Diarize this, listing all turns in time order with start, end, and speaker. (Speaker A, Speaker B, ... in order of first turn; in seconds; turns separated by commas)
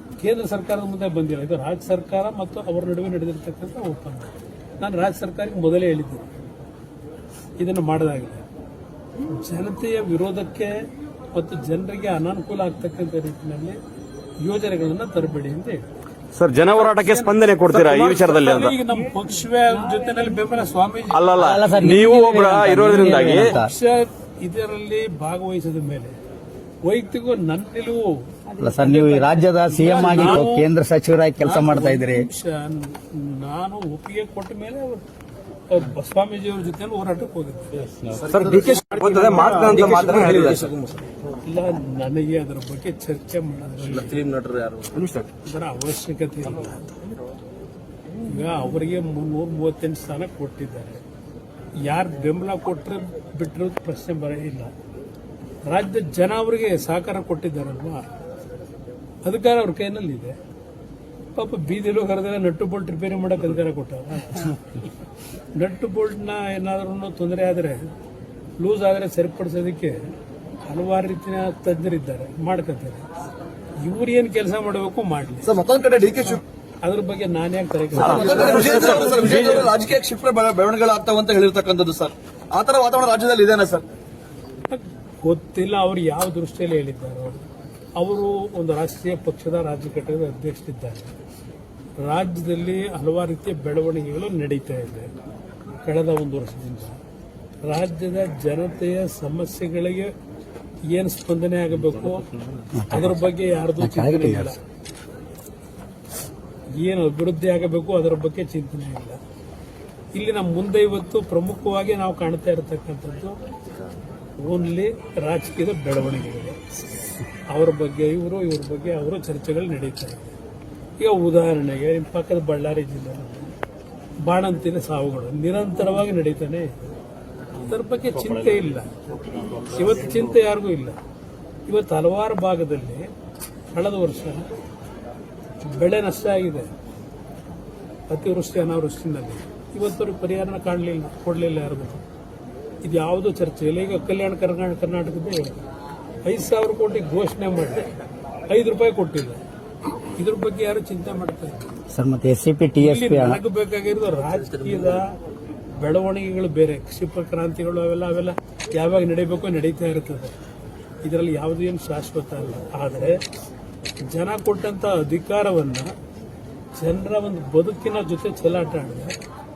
Speaker A: 0.2-6.3, Speaker A: 7.6-8.4, Speaker A: 9.3-13.8, Speaker A: 14.4-15.8, Speaker B: 16.3-18.7, Speaker A: 16.9-21.2, Speaker B: 21.1-23.5, Speaker C: 21.4-23.7, Speaker A: 23.1-26.1, Speaker A: 26.8-28.3, Speaker C: 28.6-32.3, Speaker A: 29.7-30.7, Speaker A: 31.4-35.0, Speaker A: 35.7-37.7, Speaker D: 38.0-41.0, Speaker E: 38.5-40.7, Speaker A: 41.4-44.2, Speaker D: 43.9-45.2, Speaker A: 45.4-47.0, Speaker A: 48.2-51.0, Speaker A: 51.8-54.7, Speaker A: 55.6-58.1, Speaker A: 59.2-60.4, Speaker A: 61.3-64.8, Speaker A: 65.5-67.9, Speaker A: 68.6-70.1, Speaker A: 70.7-73.0, Speaker A: 73.8-75.6, Speaker E: 75.5-76.4, Speaker A: 76.8-78.9, Speaker B: 78.0-79.7, Speaker E: 78.0-83.8, Speaker A: 84.7-87.4, Speaker A: 88.0-91.1, Speaker A: 92.0-95.1, Speaker A: 95.8-97.0, Speaker A: 97.6-100.1, Speaker A: 100.9-102.2, Speaker D: 102.1-102.7, Speaker C: 102.7-103.2, Speaker A: 102.9-104.6, Speaker C: 103.8-104.5, Speaker A: 106.8-109.2, Speaker A: 110.1-113.3, Speaker A: 114.4-116.6, Speaker A: 117.5-120.3, Speaker A: 121.0-123.5, Speaker A: 124.2-126.9, Speaker A: 127.5-128.9, Speaker A: 129.6-130.9, Speaker A: 131.7-133.1, Speaker A: 133.7-134.5, Speaker A: 135.6-136.7, Speaker A: 138.1-142.0, Speaker A: 142.8-145.6, Speaker A: 146.2-147.9, Speaker A: 148.5-149.4, Speaker A: 150.2-151.7, Speaker C: 151.9-153.4, Speaker A: 152.8-155.1, Speaker D: 154.4-155.0, Speaker A: 155.8-160.3, Speaker A: 161.0-163.2, Speaker A: 164.0-165.9, Speaker A: 166.8-169.2